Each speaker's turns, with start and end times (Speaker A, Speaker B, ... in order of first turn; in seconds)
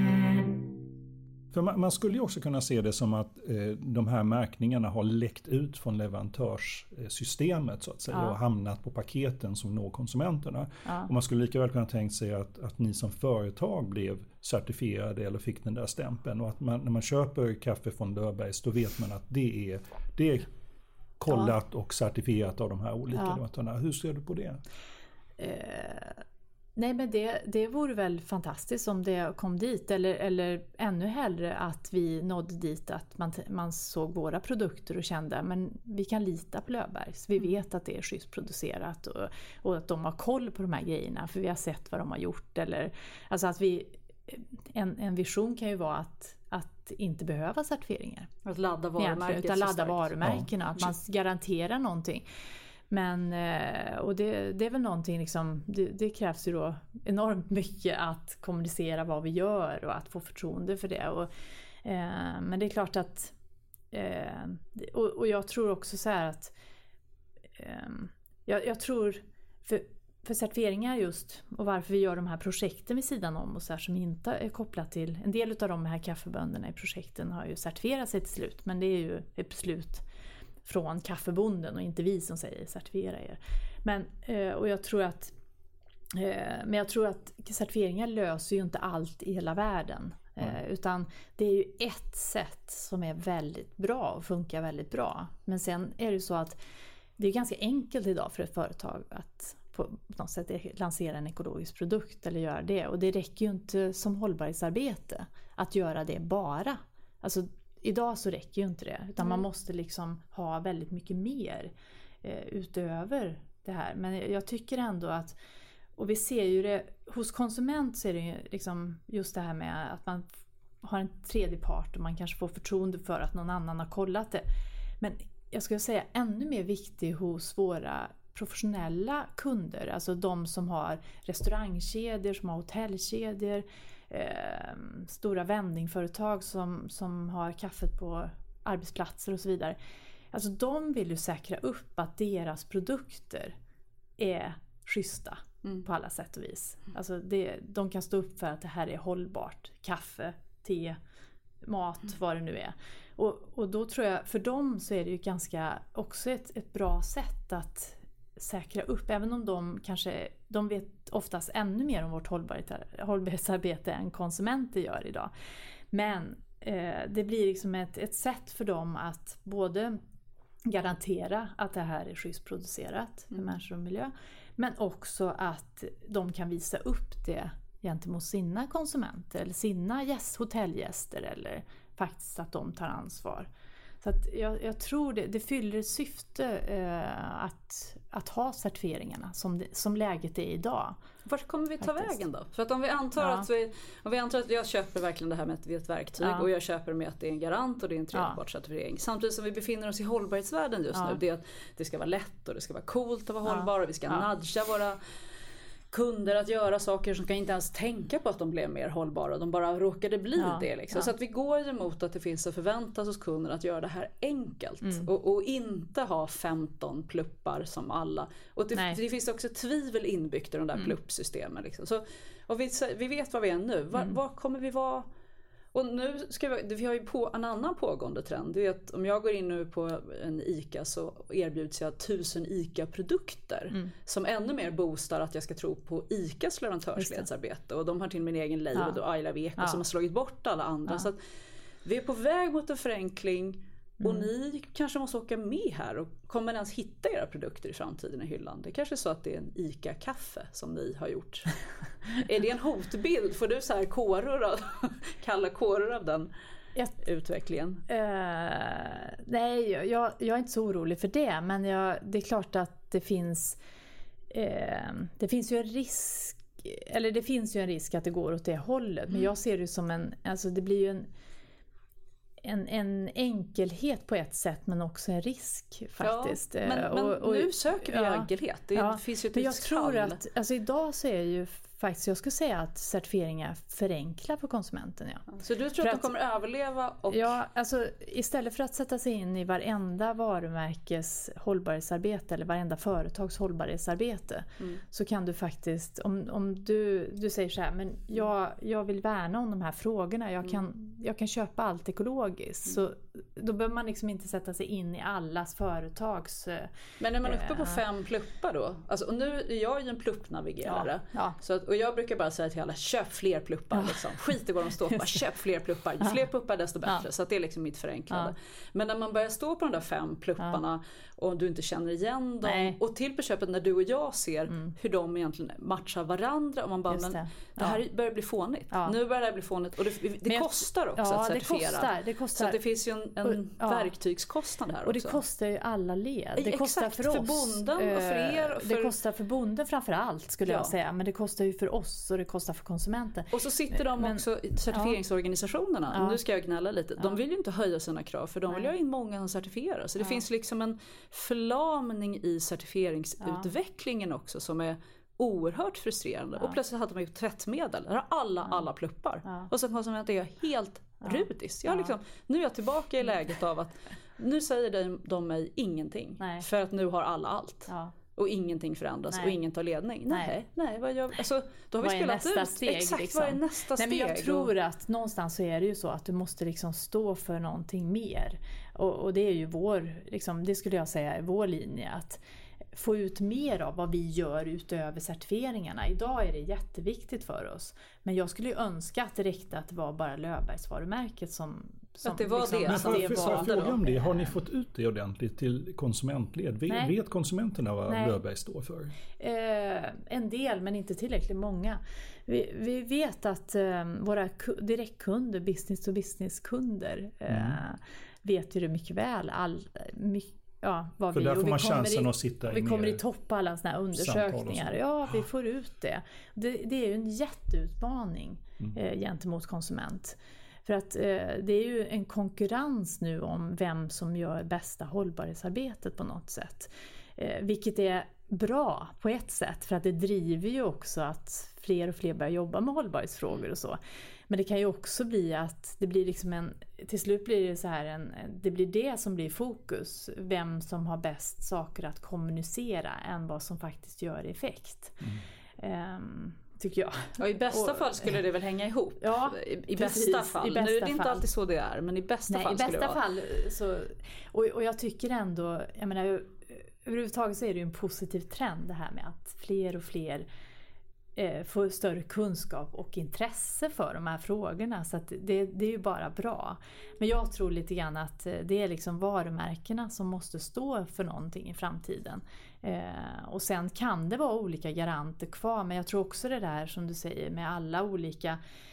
Speaker A: 1.5-20.5, 21.2-24.6, 392.6-398.9, 407.3-407.6, 411.1-413.0, 413.9-415.1
Speaker B: 8.1-8.3, 21.3-21.5, 23.1-23.4, 25.4-26.2, 26.8-48.3, 49.0-52.2, 52.9-61.3, 61.8-63.3, 63.9-66.5, 67.6-80.0, 80.6-85.3, 86.1-96.6, 97.2-111.7, 112.2-115.3, 116.0-120.3, 120.8-124.5, 125.0-139.8, 140.3-143.5, 144.2-151.0, 151.6-165.3, 165.9-170.0, 170.7-183.5, 184.0-191.0, 191.8-192.2, 193.2-193.4, 196.2-196.5, 200.9-201.2, 203.4-204.3, 210.4-211.1, 237.0-237.3, 238.7-239.0, 244.0-244.3, 257.9-263.6, 264.3-271.1, 272.4-285.2, 285.8-286.1, 287.1-306.7, 307.2-307.8, 310.6-311.4, 313.7-314.1, 314.9-315.2, 322.4-322.8, 326.9-327.8, 328.7-328.9, 330.2-332.6, 333.2-333.9, 334.8-345.0, 345.9-346.2, 353.2-353.5, 359.2-359.5, 361.0-361.9, 366.2-366.4, 367.7-367.9, 370.1-370.3, 371.8-382.2, 382.7-394.3, 397.9-398.2, 399.2-433.8, 434.3-445.0, 445.6-448.2, 449.0-451.2, 452.3-460.3, 461.1-478.4
Speaker C: 48.5-50.9, 191.2-205.0, 205.9-225.1, 225.7-241.2, 241.8-251.6, 252.1-256.3, 257.0-257.8, 276.0-280.2, 285.3-287.4, 307.0-335.2, 336.4-338.9, 340.4-340.7, 343.3-374.5, 392.0-393.8, 447.2-453.0